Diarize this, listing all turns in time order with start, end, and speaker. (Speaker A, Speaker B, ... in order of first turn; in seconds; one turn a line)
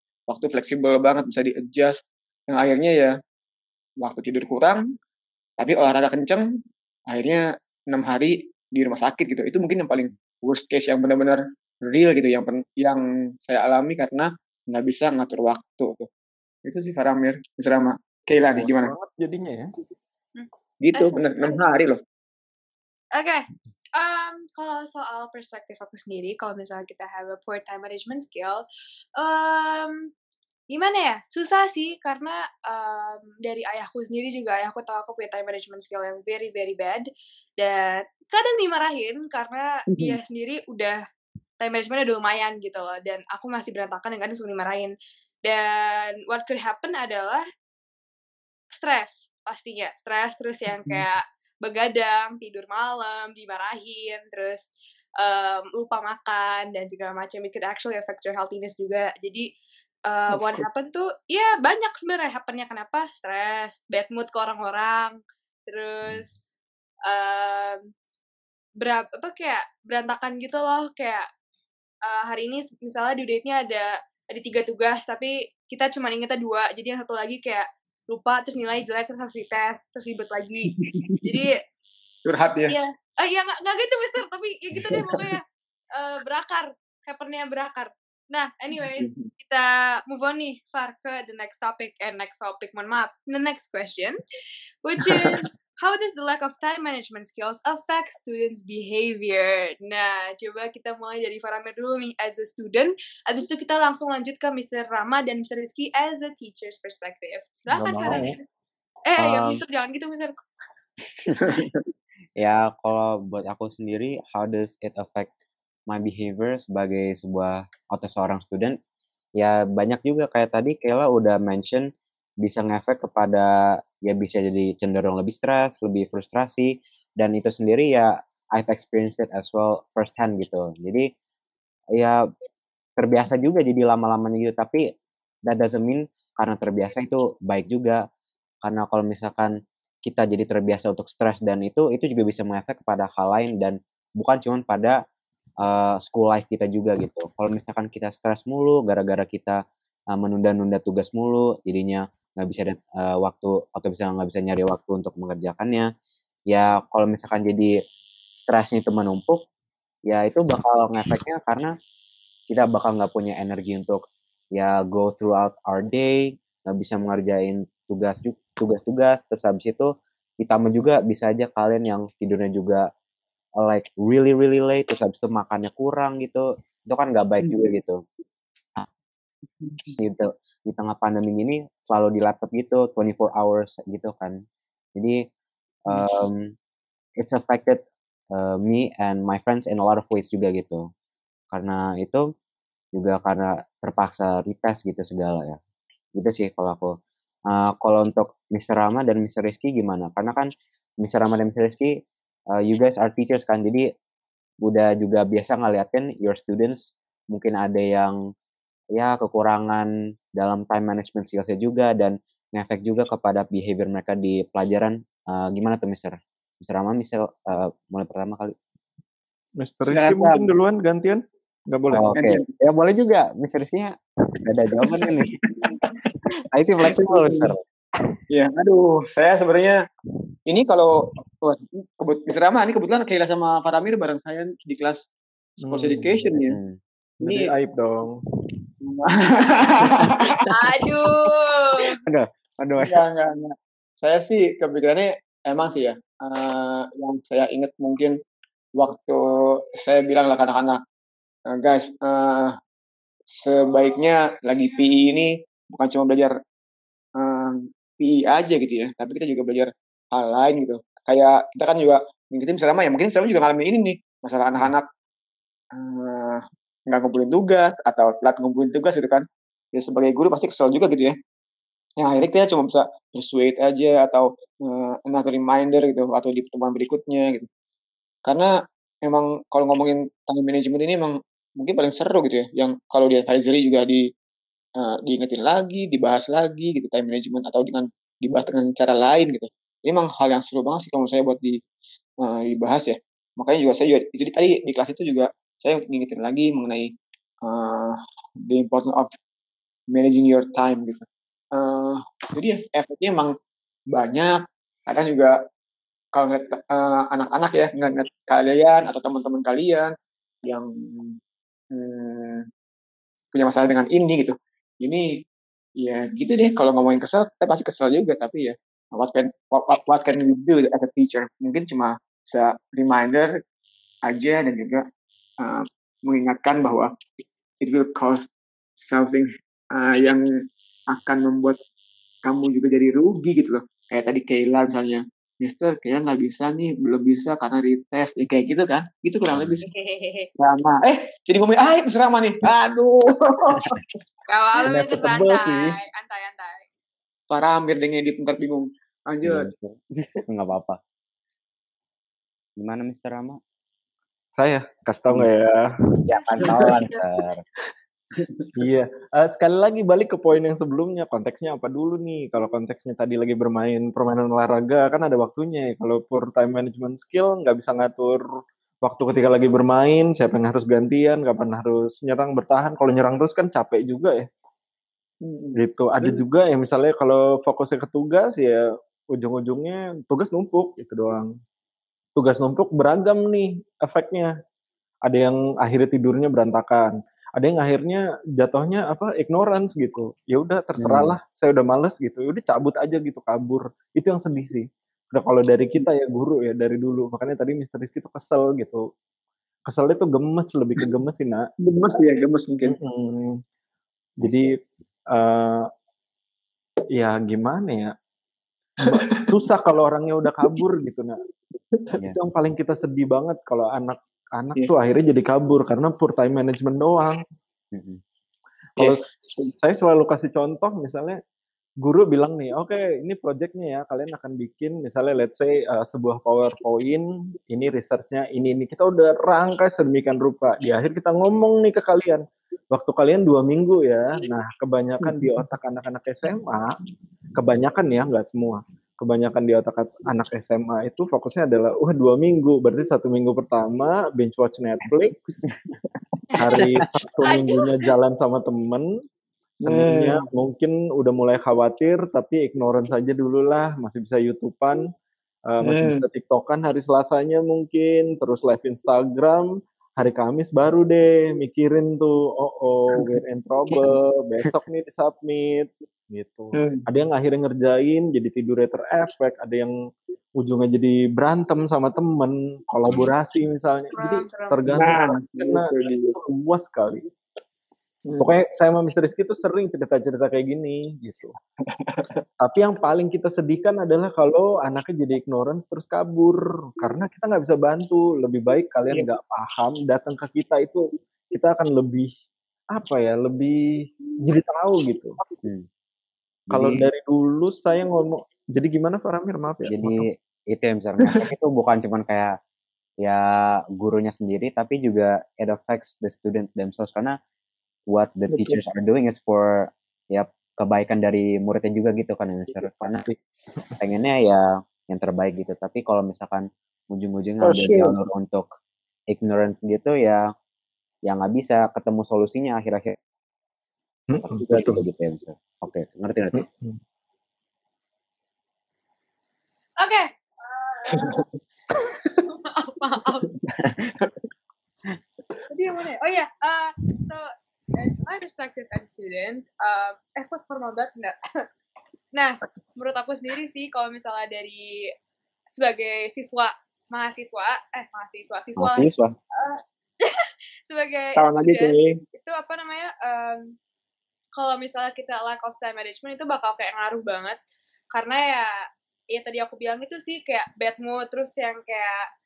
Speaker A: 0.3-3.1
Speaker A: 4.0-4.8
Speaker A: 5.6-6.5
Speaker A: 7.1-16.1
Speaker A: 16.6-18.9
Speaker B: 18.6-19.7
Speaker C: 20.4-21.6
Speaker A: 20.8-22.0
Speaker C: 23.1-23.4
Speaker C: 24.0-28.6
Speaker C: 29.2-30.1
Speaker C: 30.7-41.0
Speaker C: 41.6-44.9
Speaker C: 45.5-47.5
Speaker C: 48.7-59.5
Speaker C: 60.1-66.3
Speaker A: 60.3-60.6
Speaker C: 67.1-67.8
Speaker C: 68.8-71.2
Speaker C: 72.0-81.6
Speaker A: 80.7-81.2
Speaker A: 82.2-82.8
Speaker C: 82.7-85.4
Speaker A: 84.8-85.3
Speaker C: 86.0-94.2
Speaker A: 89.0-89.3
Speaker C: 94.8-108.3
Speaker A: 95.0-95.4
Speaker B: 107.7-108.4
Speaker C: 109.1-110.3
Speaker D: 109.2-109.6
Speaker A: 111.4-111.8
Speaker D: 112.4-115.3
Speaker D: 115.9-118.8
Speaker D: 119.4-121.9
Speaker D: 122.4-123.5
Speaker D: 124.0-131.1
Speaker D: 133.0-134.8
Speaker D: 135.5-138.0
Speaker D: 138.6-139.5
Speaker D: 140.1-145.0
Speaker D: 145.6-149.6
Speaker D: 150.1-155.9
Speaker D: 156.5-157.7
Speaker D: 158.4-159.4
Speaker D: 160.1-161.7
Speaker D: 162.5-164.0
Speaker D: 164.6-172.9
Speaker D: 173.6-178.0
Speaker A: 177.4-177.7
Speaker A: 179.6-180.0
Speaker D: 180.0-184.4
Speaker D: 185.0-185.2
Speaker D: 185.9-186.5
Speaker A: 185.9-186.2
Speaker D: 187.2-190.8
Speaker D: 191.5-192.2
Speaker D: 193.0-195.6
Speaker D: 196.2-196.9
Speaker D: 197.5-200.5
Speaker D: 201.0-201.9
Speaker D: 202.6-203.8
Speaker D: 204.7-208.2
Speaker D: 208.9-218.6
Speaker B: 219.6-222.1
Speaker A: 219.9-220.5
Speaker D: 221.9-225.4
Speaker A: 222.1-222.4
Speaker A: 224.9-225.8
Speaker D: 226.5-227.6
Speaker A: 226.8-227.5
Speaker A: 228.3-229.8
Speaker A: 230.5-235.0
Speaker B: 235.6-236.3
Speaker A: 235.6-236.6
Speaker D: 236.4-236.8
Speaker B: 237.2-238.2
Speaker A: 237.2-237.5
Speaker A: 238.8-240.5
Speaker D: 239.8-240.5
Speaker C: 240.5-241.9
Speaker D: 242.0-243.0
Speaker A: 242.8-248.1
Speaker A: 248.8-249.2
Speaker A: 249.8-250.8
Speaker A: 251.5-252.6
Speaker A: 253.3-256.3
Speaker A: 257.2-264.9
Speaker A: 265.7-271.1
Speaker A: 272.0-277.5
Speaker A: 278.2-278.5
Speaker A: 279.1-284.1
Speaker A: 284.8-291.6
Speaker A: 292.2-296.9
Speaker A: 297.4-297.9
Speaker A: 298.5-299.1
Speaker A: 299.9-303.3
Speaker A: 303.9-305.4
Speaker A: 306.1-309.9
Speaker A: 310.4-311.2
Speaker A: 311.7-312.4
Speaker A: 313.3-315.1
Speaker A: 315.8-323.3
Speaker A: 324.1-324.9
Speaker A: 325.4-326.9
Speaker A: 327.6-328.3
Speaker A: 328.8-330.2
Speaker A: 330.9-331.6
Speaker A: 332.2-339.6
Speaker C: 339.6-340.3
Speaker A: 340.3-343.8
Speaker C: 344.3-346.6
Speaker B: 344.6-345.8
Speaker A: 347.3-349.5
Speaker D: 349.2-350.8
Speaker D: 352.6-353.4
Speaker B: 354.4-356.8
Speaker D: 356.0-357.4
Speaker C: 356.1-357.0
Speaker A: 358.2-358.5
Speaker B: 358.6-368.2
Speaker B: 368.8-374.3
Speaker A: 375.2-376.2
Speaker B: 375.6-381.4
Speaker B: 382.1-384.3
Speaker B: 385.1-398.9
Speaker D: 390.8-391.1
Speaker B: 399.7-401.5
Speaker A: 401.6-402.8
Speaker B: 402.6-403.4
Speaker B: 404.2-404.6
Speaker D: 404.2-404.6
Speaker B: 405.1-405.7
Speaker B: 406.9-407.9
Speaker B: 408.8-411.2
Speaker A: 408.8-409.3
Speaker B: 412.0-417.2
Speaker D: 417.7-418.0
Speaker A: 418.8-419.5
Speaker B: 418.8-421.2
Speaker B: 421.8-436.8
Speaker B: 437.4-445.4
Speaker C: 446.4-446.6
Speaker B: 446.4-448.9
Speaker D: 446.5-446.9
Speaker C: 447.2-447.8
Speaker B: 449.6-454.9
Speaker A: 449.6-450.2
Speaker B: 455.5-469.8
Speaker A: 455.6-456.0
Speaker A: 466.5-466.9
Speaker B: 470.4-477.0
Speaker C: 473.9-474.7
Speaker A: 474.7-476.2
Speaker A: 478.1-478.3
Speaker B: 478.2-481.3
Speaker A: 481.8-482.2
Speaker B: 482.4-492.1
Speaker A: 488.9-489.2
Speaker B: 492.7-495.2
Speaker D: 495.4-495.7
Speaker D: 496.5-496.9
Speaker B: 496.5-500.1
Speaker D: 499.7-502.3
Speaker D: 503.0-507.2
Speaker D: 507.9-513.0
Speaker A: 508.3-508.6
Speaker B: 512.5-513.2
Speaker D: 513.8-518.5
Speaker A: 517.4-517.9
Speaker D: 519.1-520.3
Speaker D: 521.0-523.0
Speaker B: 524.1-524.8
Speaker D: 524.2-526.5
Speaker B: 526.3-526.8
Speaker C: 529.8-531.2
Speaker A: 531.0-531.2
Speaker C: 531.8-533.3
Speaker D: 533.6-533.9
Speaker C: 535.5-541.2
Speaker C: 542.1-544.9
Speaker C: 545.5-553.5
Speaker D: 548.6-549.1
Speaker A: 551.2-552.0
Speaker C: 554.4-557.4
Speaker C: 557.9-562.0